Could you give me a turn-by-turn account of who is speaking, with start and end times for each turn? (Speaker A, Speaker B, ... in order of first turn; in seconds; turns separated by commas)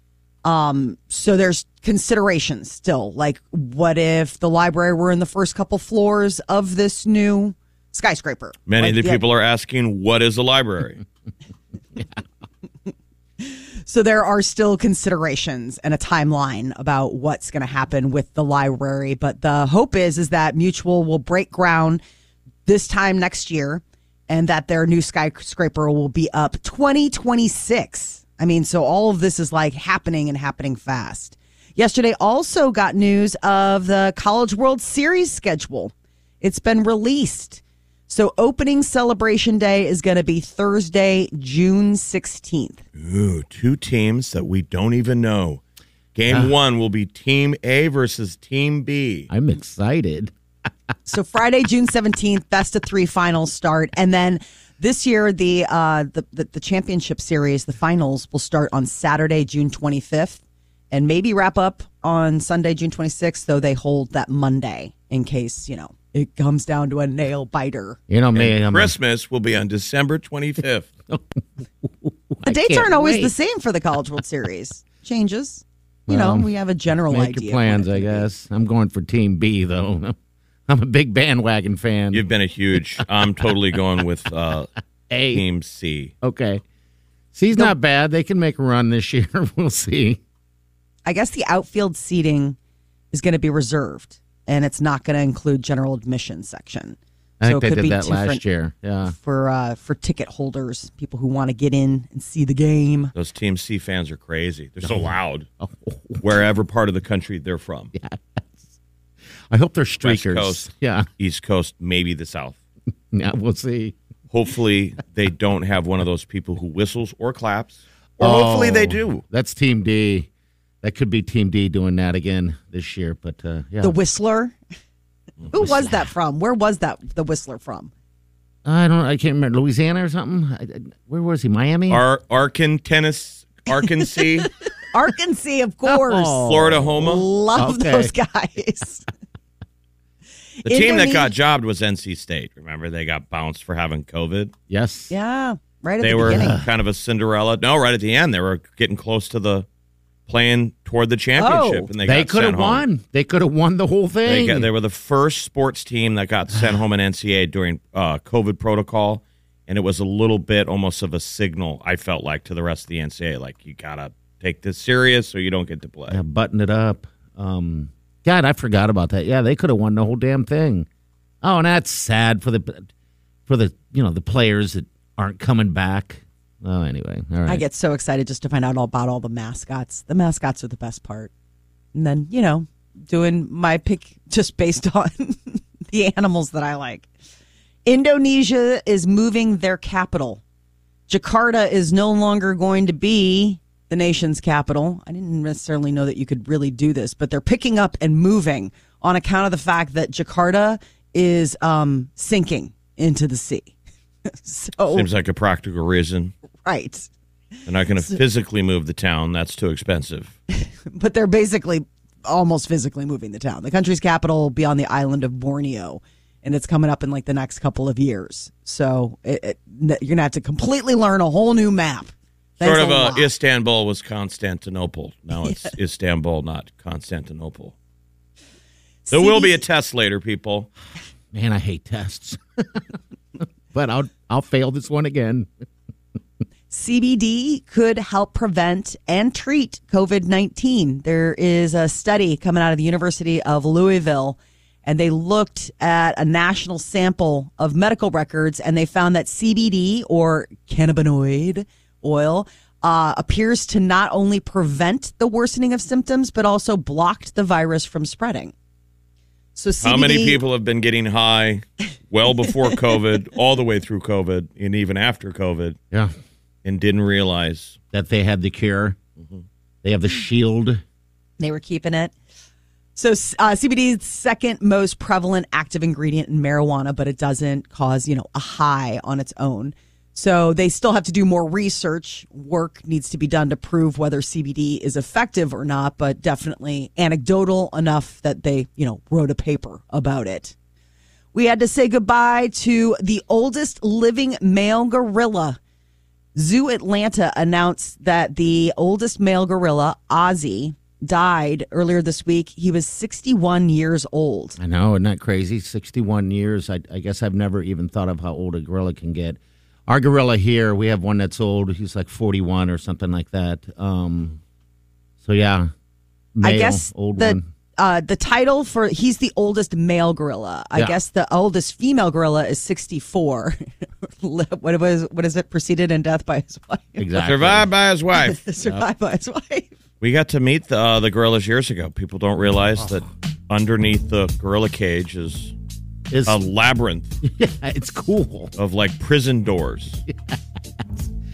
Speaker A: 0.4-9.2, Speaker B: 8.7-11.0, Speaker C: 11.9-12.2, Speaker A: 13.4-22.0, Speaker A: 22.6-42.8, Speaker B: 43.0-45.6, Speaker B: 46.1-49.3, Speaker C: 49.3-50.3, Speaker A: 51.0-68.0, Speaker C: 68.1-68.9, Speaker B: 68.3-70.9, Speaker C: 71.8-73.3, Speaker A: 72.4-78.3, Speaker C: 76.1-76.5, Speaker C: 77.1-80.2, Speaker C: 80.7-82.2, Speaker B: 82.1-84.7, Speaker C: 85.1-85.4, Speaker B: 85.3-86.1, Speaker C: 86.2-86.6, Speaker C: 87.3-90.2, Speaker A: 91.0-92.6, Speaker A: 93.1-98.4, Speaker C: 97.4-99.1, Speaker A: 99.1-103.1, Speaker B: 103.1-105.5, Speaker C: 104.8-106.2, Speaker B: 106.2-107.9, Speaker C: 107.9-108.5, Speaker C: 109.5-111.1, Speaker B: 110.0-110.7, Speaker B: 111.2-112.6, Speaker C: 113.1-114.0, Speaker B: 114.3-119.2, Speaker C: 118.2-120.3, Speaker C: 120.8-124.0, Speaker A: 123.8-124.6, Speaker A: 125.5-127.9, Speaker C: 125.5-126.0, Speaker C: 128.6-132.0, Speaker B: 131.9-134.5, Speaker A: 133.7-134.2, Speaker A: 134.9-139.0, Speaker C: 135.9-136.9, Speaker B: 136.5-137.2, Speaker C: 137.5-138.1, Speaker B: 140.6-144.5, Speaker A: 140.7-141.3, Speaker C: 144.7-145.1, Speaker A: 145.1-146.6, Speaker B: 146.0-149.7, Speaker C: 146.2-146.7, Speaker B: 150.3-152.8, Speaker A: 151.4-151.9, Speaker C: 152.0-154.7, Speaker B: 154.2-166.2, Speaker C: 166.1-170.9, Speaker C: 171.4-172.9, Speaker C: 173.5-177.6, Speaker A: 177.4-181.3, Speaker A: 181.9-187.1, Speaker A: 187.8-190.4, Speaker A: 191.1-203.7, Speaker A: 204.3-205.1, Speaker B: 204.9-206.3, Speaker A: 206.6-207.1, Speaker B: 207.7-210.3, Speaker A: 210.9-223.3, Speaker B: 222.6-227.7, Speaker A: 229.1-229.6, Speaker B: 229.1-230.7, Speaker C: 231.3-232.9, Speaker C: 233.7-235.5, Speaker A: 236.7-258.5, Speaker A: 259.6-260.4, Speaker B: 259.8-265.8, Speaker B: 266.6-267.8, Speaker C: 267.9-269.0, Speaker C: 269.8-270.8, Speaker A: 271.4-272.1, Speaker A: 272.9-290.5, Speaker A: 291.3-295.6, Speaker A: 296.4-304.6, Speaker C: 304.6-314.4, Speaker C: 315.2-315.7, Speaker C: 316.4-317.4, Speaker A: 316.4-327.0, Speaker C: 327.0-327.7, Speaker B: 327.2-328.4, Speaker A: 328.2-329.7, Speaker B: 330.0-335.5, Speaker C: 336.1-336.4, Speaker B: 336.2-337.1, Speaker C: 337.2-338.5, Speaker B: 338.6-340.0, Speaker C: 340.1-340.4